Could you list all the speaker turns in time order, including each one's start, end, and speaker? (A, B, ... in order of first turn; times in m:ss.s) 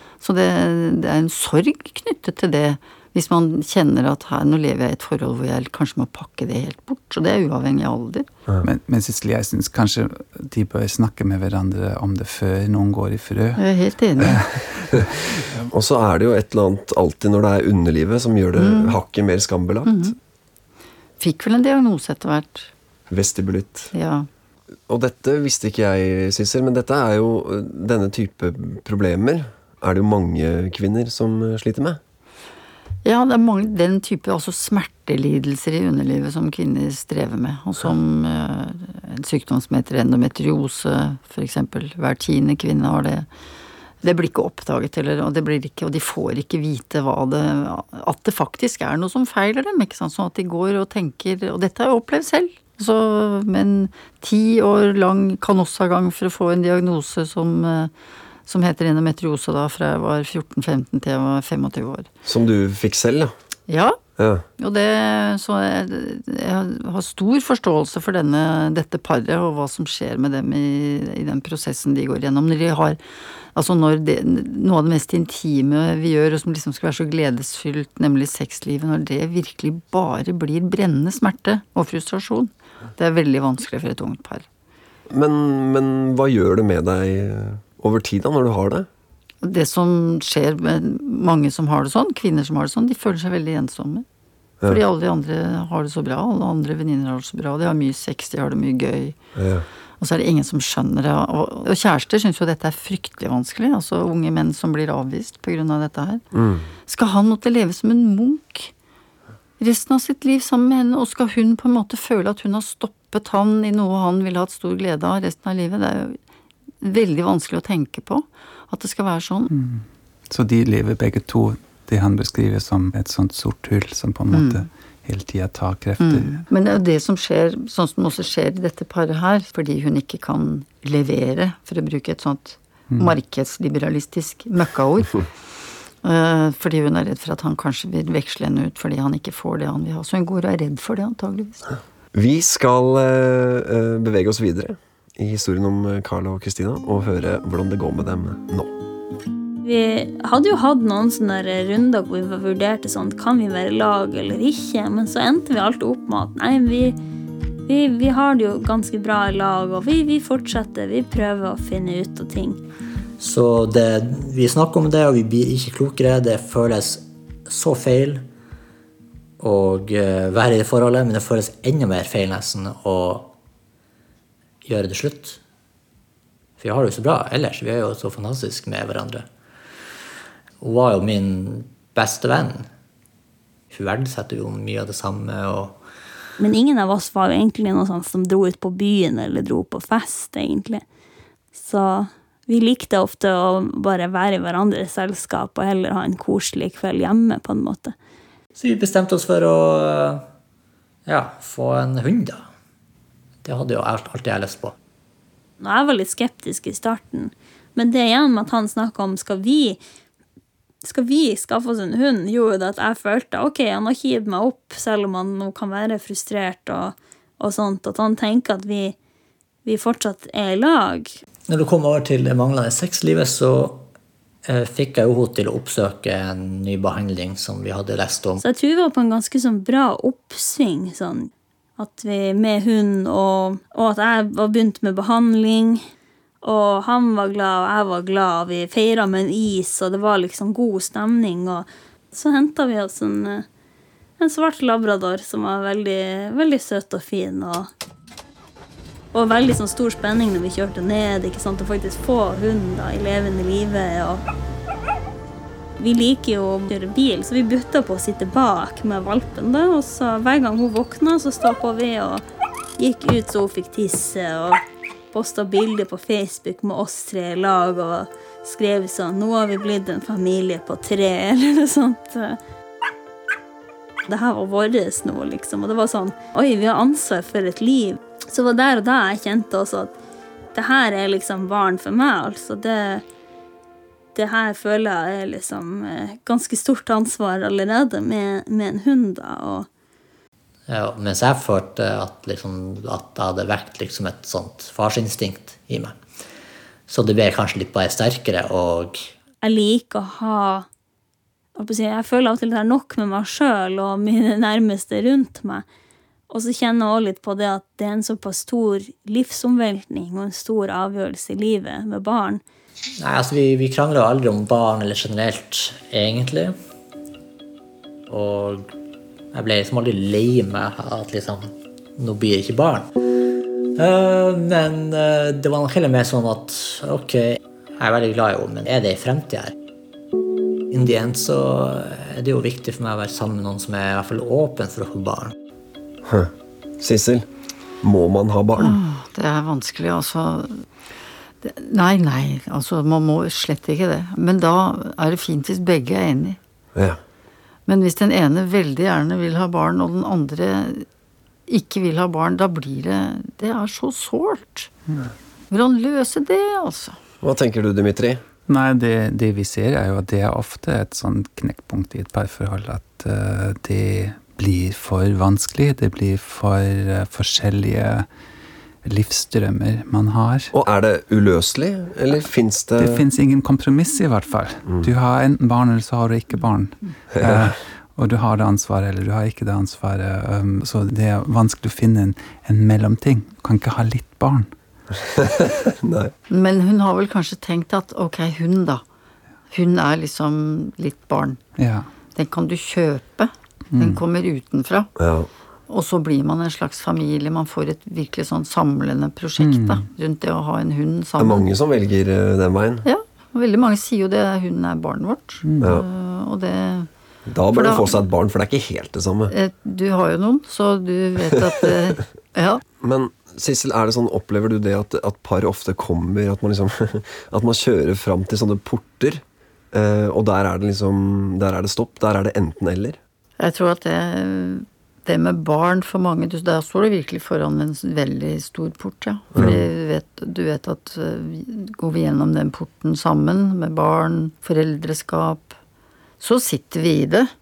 0:00.2-0:08.3 A
0:08.6-0:13.6 B
0:13.6-0:14.4 A
0:14.2-0:15.7 B
0:15.7-0:20.1 C
0:18.6-0:19.0 A
0:19.8-0:20.1 A
0:21.2-0:22.7 A
0:23.1-0:23.9 C
0:23.9-0:24.3 A
0:24.9-0:32.0 C
0:33.0-0:43.3 A
0:44.0-0:57.9 A
0:58.4-1:02.1 A
1:02.2-1:03.3 C
1:03.7-1:04.0 A
1:04.2-1:04.4 C
1:04.6-1:13.0 A
1:13.5-1:24.4 A
1:25.1-1:28.9 C
1:29.4-1:34.0 A
1:34.6-1:39.2 A
1:39.4-1:39.6 C
1:40.0-1:46.2 A
1:46.3-1:46.7 C
1:46.9-1:48.7 A
1:49.6-1:56.2 A
1:56.8-1:59.5 A
1:59.5-2:06.4 B
2:04.3-2:04.6 A
2:06.0-2:15.3 A
2:16.0-2:21.7 A
2:22.1-2:28.7 C
2:29.6-2:37.0 D
2:37.6-2:42.6 D
2:43.2-2:48.2 E
2:49.4-2:53.3 E
2:54.6-2:55.4 E
2:56.6-2:59.2 E
3:00.6-3:02.7 E
3:03.7-3:05.8 E
3:06.4-3:10.8 D
3:11.5-3:17.9 D
3:18.6-3:20.2 E
3:21.0-3:22.4 E
3:23.4-3:24.7 E
3:25.6-3:29.8 D
3:30.8-3:39.0 D
3:39.6-3:41.2 D
3:41.5-3:43.9 E
3:44.4-3:48.4 E
3:48.4-3:55.8 D
3:56.4-4:03.4 D
4:04.2-4:07.7 D
4:09.1-4:14.2 D
4:15.8-4:22.2 D
4:22.8-4:24.6 D
4:25.1-4:32.4 D
4:34.1-4:39.9 D
4:40.5-4:43.0 D
4:44.1-4:49.7 D
4:50.7-4:56.0 E
4:56.9-4:59.1 E
4:59.4-5:00.6 D
5:01.6-5:05.6 D
5:06.3-5:12.4 D
5:13.0-5:16.5 E
5:18.1-5:18.7 E
5:19.3-5:22.9 E
5:23.8-5:29.5 E
5:30.7-5:35.3 E
5:36.0-5:37.3 C
5:37.8-5:38.8 C
5:38.6-5:40.6 A
5:41.4-5:46.4 A
5:46.7-5:47.0 C
5:47.7-5:50.8 A
5:51.5-5:54.7 A
5:55.5-5:57.0 A
5:57.2-5:58.2 C
5:58.5-6:08.1 B
6:08.8-6:10.5 B
6:10.5-6:13.0 C
6:12.8-6:24.5 B
6:17.1-6:17.5 C
6:25.2-6:26.1 C
6:26.3-6:28.8 A
6:29.5-6:31.4 A
6:31.6-6:31.9 B
6:32.1-6:34.9 A
6:33.7-6:34.0 B
6:35.0-6:35.3 C
6:35.7-6:41.5 A
6:39.4-6:39.8 B
6:41.2-6:42.8 C
6:42.8-6:46.9 A
6:45.4-6:45.8 B
6:47.3-6:49.3 C
6:47.5-6:48.0 A
6:49.3-6:52.6 A
6:52.8-7:03.0 C
7:03.4-7:15.6 A
7:16.2-7:17.3 A